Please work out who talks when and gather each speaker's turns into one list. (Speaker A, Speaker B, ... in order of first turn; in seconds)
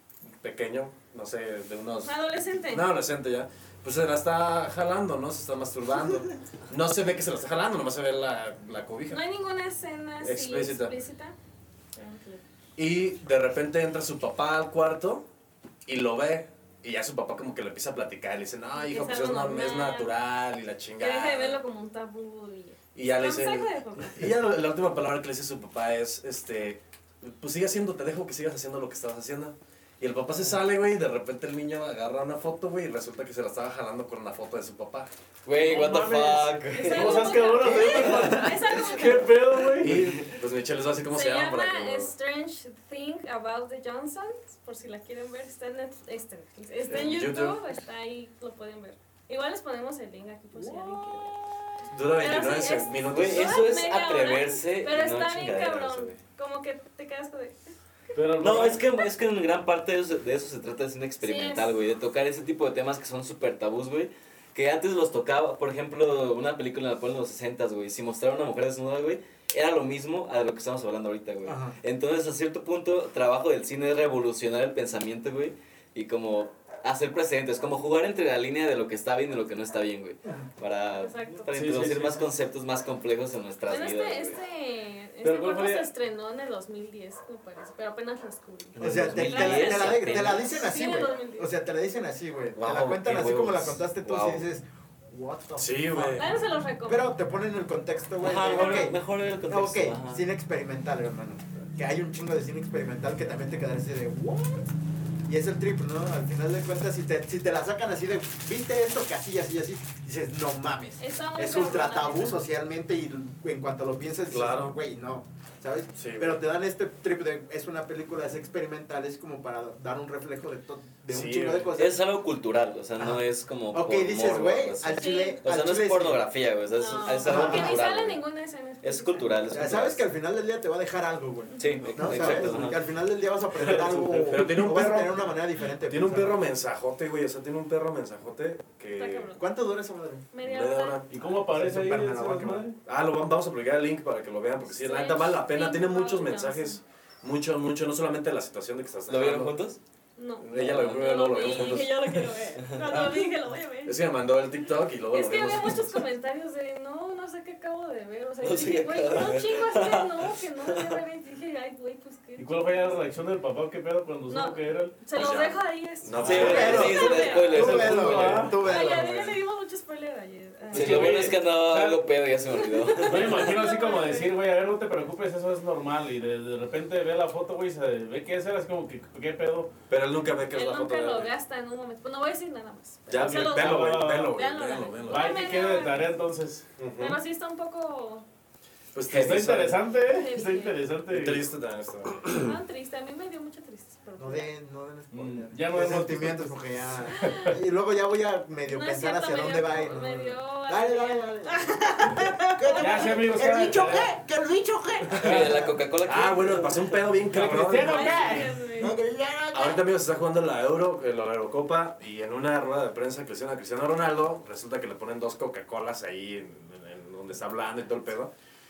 Speaker A: 0.4-9.2, 10.2-10.9, 12.8-15.2, 15.8-21.6, 22.9-35.1, 39.8-42.1, 46.9-47.6, 51.8-53.8, 95.6-96.3, 114.3-114.7, 116.0-116.4, 121.1-121.7, 131.8-132.5, 134.3-135.3, 135.8-139.3, 140.4-141.1, 142.8-149.5, 150.4-152.3, 152.9-153.2, 153.8-156.0, 165.1-167.3, 179.9-181.3, 183.1-185.4, 186.8-187.2, 188.9-189.8, 191.1-192.3, 206.0-208.4, 209.5-218.3
Speaker B: 2.0-2.9, 9.1-11.3, 11.9-12.4, 18.8-20.1, 21.0-24.3, 36.7-39.4, 41.1-51.3, 52.1-57.6, 61.2-61.7, 81.0-81.5, 83.7-91.5, 96.2-97.1, 98.5-98.9, 111.0-112.4, 125.0-125.4, 126.8-129.3, 138.9-139.4, 140.3-141.0, 144.7-146.8, 150.2-154.0, 155.1-162.5, 164.3-167.8, 168.5-171.3, 172.5-174.3, 180.5-186.1, 187.0-188.2, 190.1-190.7, 192.2-194.5, 197.1-197.6, 198.6-203.6, 207.8-208.9
Speaker C: 35.4-37.4, 39.9-40.2, 53.1-56.2, 58.4-84.4, 88.8-90.5, 92.5-94.5, 98.2-100.2, 121.8-128.2, 128.8-130.0, 131.6-132.8, 133.6-134.1, 149.1-149.8, 150.5-151.9, 152.6-153.0, 158.4-161.0, 166.2-168.5, 170.7-173.6, 205.1-206.9
Speaker D: 35.5-40.1, 58.1-58.8, 81.6-82.2, 85.2-85.9, 133.6-134.4, 141.1-142.8, 162.4-165.0, 167.4-168.7, 170.7-172.1, 173.0-179.7, 183.2-184.4, 185.1-186.7, 189.1-191.5, 195.1-196.6, 197.2-197.5, 202.8-204.1, 207.2-208.7
Speaker E: 37.6-38.4, 71.5-71.8, 88.8-104.7, 105.2-122.0, 123.0-126.2, 127.2-127.8, 129.5-136.4, 139.4-140.3, 141.2-142.7, 166.2-169.4, 194.2-205.8, 208.8-209.8